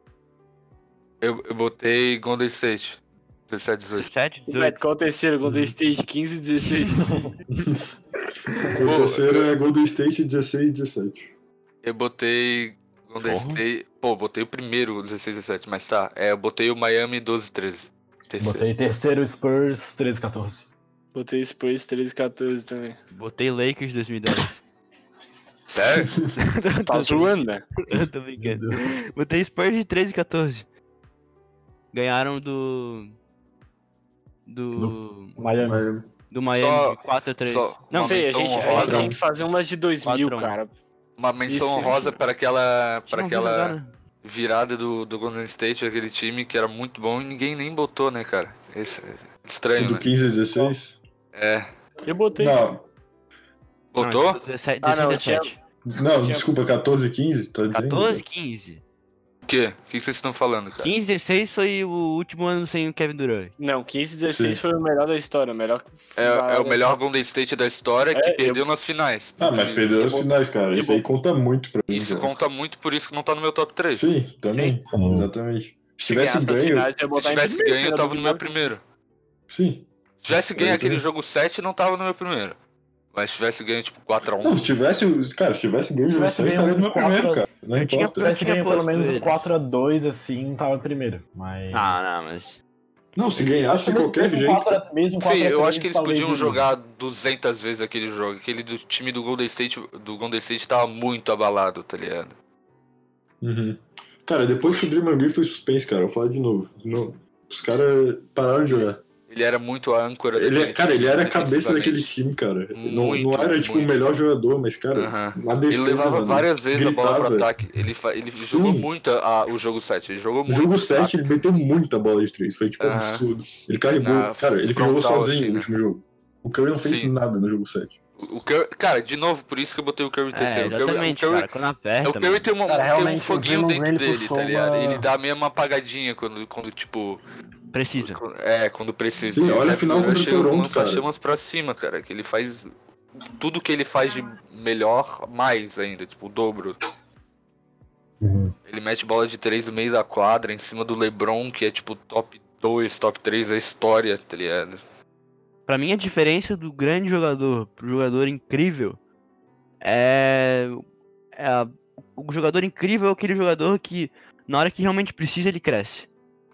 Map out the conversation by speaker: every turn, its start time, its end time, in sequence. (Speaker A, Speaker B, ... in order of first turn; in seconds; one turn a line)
Speaker A: 1.2-4.1
Speaker B: 4.0-4.8
Speaker C: 4.5-7.1
Speaker D: 7.0-7.3
Speaker E: 7.5-7.8
Speaker E: 8.6-11.3
Speaker A: 8.8-9.5
Speaker A: 11.8-18.7
Speaker B: 13.2-13.6
Speaker D: 18.4-20.7
Speaker C: 21.1-23.0
Speaker B: 23.1-24.6
Speaker A: 25.7-26.1
Speaker B: 26.3-30.7
Speaker C: 26.9-27.7
Speaker D: 28.4-28.8
Speaker B: 31.9-33.1
Speaker B: 34.5-35.4
Speaker D: 34.8-35.9
Speaker E: 35.6-36.0
Speaker B: 36.3-39.1
Speaker A: 36.5-39.1
Speaker C: 38.0-40.7
Speaker E: 38.8-39.2
Speaker B: 40.0-40.6
Speaker A: 41.2-50.1
Speaker C: 41.5-42.1
Speaker B: 43.1-43.9
Speaker E: 49.8-51.0
Speaker A: 51.3-51.7
Speaker C: 52.0-52.7
Speaker E: 52.4-52.9
Speaker A: 53.9-54.4
Speaker B: 54.0-55.6
Speaker C: 54.8-56.5
Speaker E: 55.9-58.2
Speaker B: 57.7-58.8
Speaker A: 59.5-60.9
Speaker B: 60.8-63.5
Speaker C: 63.6-66.8
Speaker E: 64.3-64.6
Speaker A: 66.2-69.9
Speaker C: 68.1-68.6
Speaker E: 69.4-72.3
Speaker C: 69.9-71.0
Speaker A: 71.9-74.1
Speaker E: 73.9-76.9
Speaker C: 74.5-74.8
Speaker D: 74.9-75.3
Speaker C: 76.0-78.5
Speaker A: 77.1-78.8
Speaker E: 79.5-81.0
Speaker A: 80.2-82.6
Speaker A: 83.1-84.8
Speaker E: 84.4-88.4
Speaker D: 86.1-87.5
Speaker B: 87.8-89.5
Speaker D: 88.2-92.0
Speaker B: 91.7-92.6
Speaker E: 93.2-94.8
Speaker D: 93.5-96.7
Speaker A: 95.2-102.4
Speaker E: 103.4-109.0
Speaker A: 108.7-112.1
Speaker E: 110.3-117.5
Speaker A: 112.8-113.9
Speaker A: 115.0-121.2
Speaker E: 118.4-118.9
Speaker E: 120.5-128.0
Speaker A: 122.8-123.3
Speaker A: 124.0-125.7
Speaker A: 126.8-127.1
Speaker A: 128.2-131.5
Speaker B: 130.3-132.5
Speaker A: 132.0-137.2
Speaker D: 132.7-135.1
Speaker B: 137.7-138.2
Speaker A: 138.0-146.8
Speaker E: 139.2-141.1
Speaker D: 148.2-148.5
Speaker A: 148.7-154.8
Speaker B: 155.7-159.0
Speaker B: 159.8-160.8
Speaker B: 161.4-166.1